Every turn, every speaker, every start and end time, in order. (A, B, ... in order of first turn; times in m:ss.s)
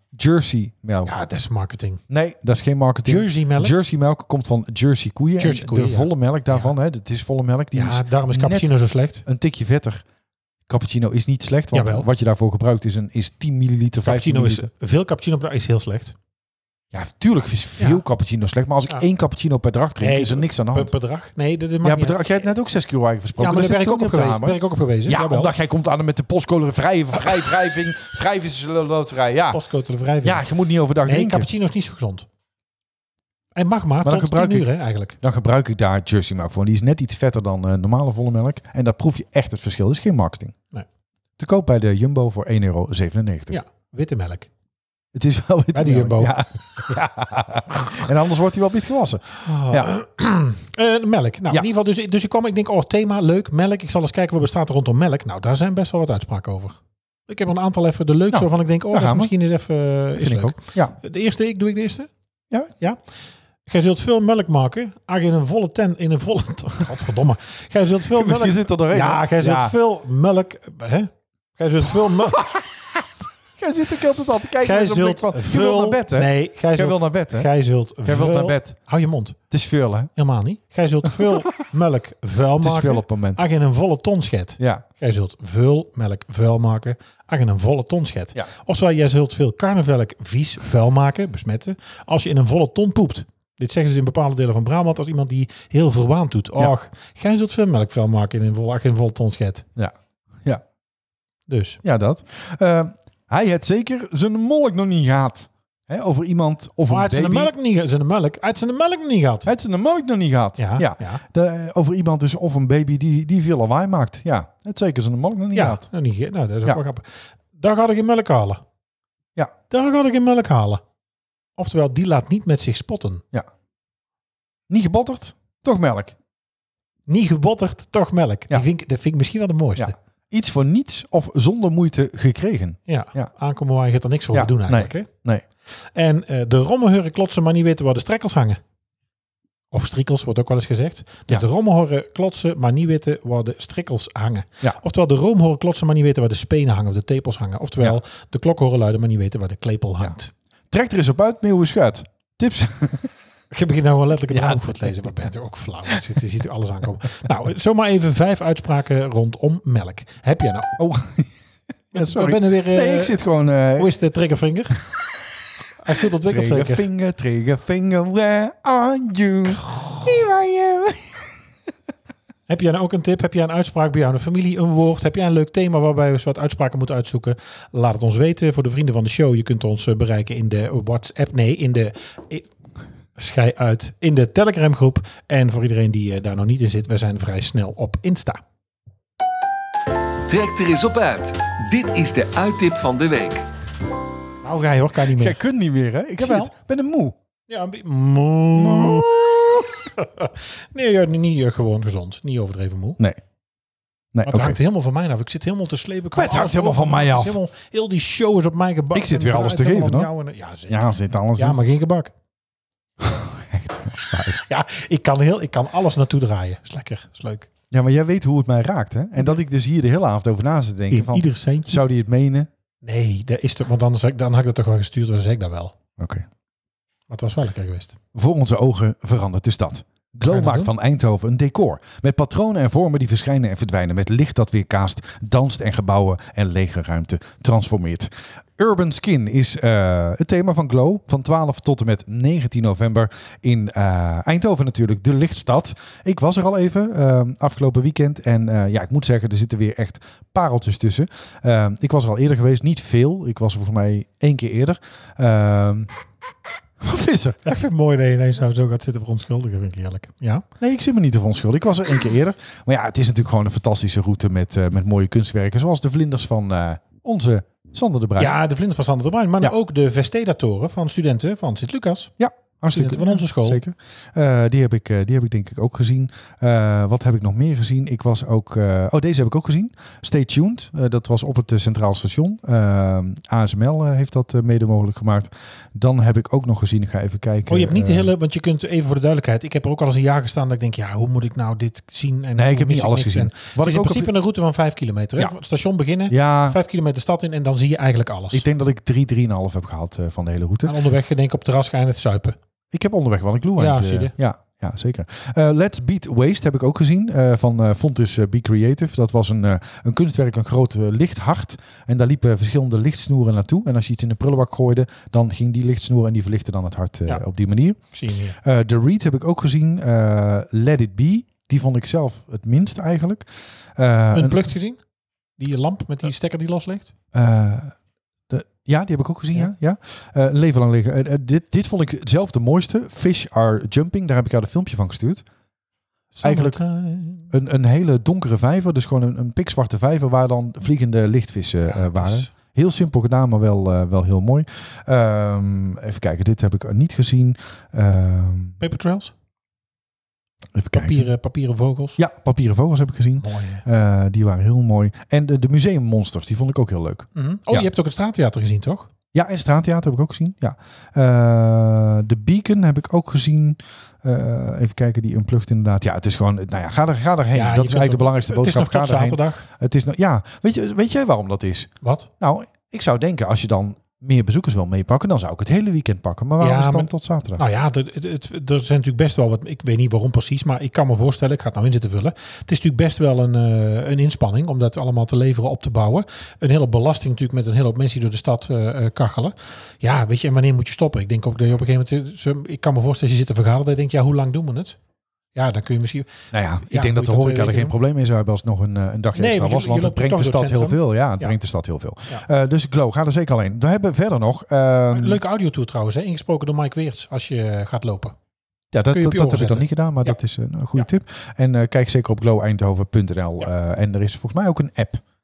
0:00.1-0:01.2 A
0:01.0-0:02.0 B
0:02.1-0:08.7 A
0:03.0-0:03.7 B
0:05.4-0:06.7 B
0:07.7-0:09.2 B
0:09.2-0:10.0 A
0:10.7-0:14.7 A
0:11.7-0:12.1 B
0:14.0-0:16.1 B
0:16.9-0:20.9 A
0:20.0-0:22.5 B
0:21.8-0:29.6 A
0:23.4-0:25.5 B
0:29.5-0:30.4 B
0:30.2-0:31.5 A
0:31.0-0:32.3 B
0:33.6-0:35.2 B
0:34.0-0:34.7 A
0:35.2-0:40.6 A
0:41.4-0:43.6 A
0:43.5-0:44.5 B
0:45.1-0:49.9 A
0:45.7-0:46.4 B
0:49.4-1:02.1 B
0:58.3-0:59.3 A
1:00.2-1:00.9 A
1:03.6-1:12.4 B
1:08.1-1:09.7 A
1:12.4-1:12.6 A
1:13.6-1:17.5 A
1:14.6-1:19.4 B
1:18.0-1:18.8 A
1:19.5-1:20.1 A
1:20.2-1:39.6 B
1:21.1-1:21.5 A
1:22.6-1:23.4 A
1:24.6-1:24.8 A
1:39.8-1:40.6 A
1:41.5-1:41.8 B
1:41.8-1:47.5 A
1:46.9-1:49.5 B
1:49.4-1:55.8 A
1:50.6-1:51.2 B
1:55.5-1:58.6 B
1:59.7-2:00.8 B
2:01.6-2:03.2 B
2:04.7-2:06.1 A
2:07.1-2:09.9 B
2:09.8-2:13.3 A
2:12.9-2:15.1 B
2:14.3-2:15.4 A
2:15.9-2:18.6 B
2:19.7-2:30.3 B
2:30.7-2:33.1 A
2:33.5-2:40.7 B
2:34.3-2:35.2 A
2:40.8-2:41.3 A
2:41.9-2:43.9 A
2:41.9-2:43.2 B
2:43.8-2:44.8 B
2:45.8-2:46.9 B
2:46.2-2:51.3 A
2:52.5-3:02.5 B
3:03.2-3:08.4 B
3:10.3-3:13.4 C
3:14.4-3:15.4 B
3:15.1-3:17.1 A
3:16.2-3:16.5 B
3:17.5-3:23.0 B
3:18.5-3:19.6 A
3:24.1-3:24.6 A
3:24.2-3:32.1 B
3:26.2-3:27.4 A
3:28.9-3:30.1 A
3:30.7-3:31.6 A
3:33.0-3:34.4 A
3:34.5-3:37.5 B
3:37.7-3:42.5 A
3:40.9-3:41.8 B
3:42.8-3:45.7 B
3:46.0-3:46.2 A
3:47.1-3:48.0 B
3:48.1-4:15.9 A
3:50.2-3:50.7 B
4:16.8-4:17.5 A
4:17.4-4:20.4 B
4:20.6-4:28.4 A
4:28.2-4:32.1 B
4:32.2-4:48.1 A
4:32.7-4:33.6 B
4:47.5-4:58.4 B
4:52.4-4:54.1 A
4:56.1-4:56.6 A
4:58.3-5:00.7 A
5:00.6-5:02.4 B
5:02.7-5:17.8 A
5:03.6-5:04.1 B
5:17.9-5:18.4 B
5:18.4-5:24.4 A
5:24.1-5:24.8 B
5:25.4-5:26.9 B
5:27.1-5:27.8 A
5:28.3-5:35.2 A
5:36.1-5:37.3 B
5:36.2-5:36.6 A
5:37.3-5:48.6 A
5:41.6-5:42.3 B
5:48.6-5:49.1 B
5:50.5-5:51.1 A
5:50.7-5:52.0 B
5:52.0-5:57.7 A
5:53.2-5:53.6 B
5:57.1-5:58.9 B
5:59.1-6:17.4 A
6:07.3-6:09.4 B
6:11.8-6:12.1 B
6:16.4-6:34.8 B
6:35.3-6:37.7 B
6:36.3-6:45.2 A
6:39.1-6:41.4 B
6:44.9-6:48.1 B
6:48.7-6:55.0 A
6:48.9-6:50.2 B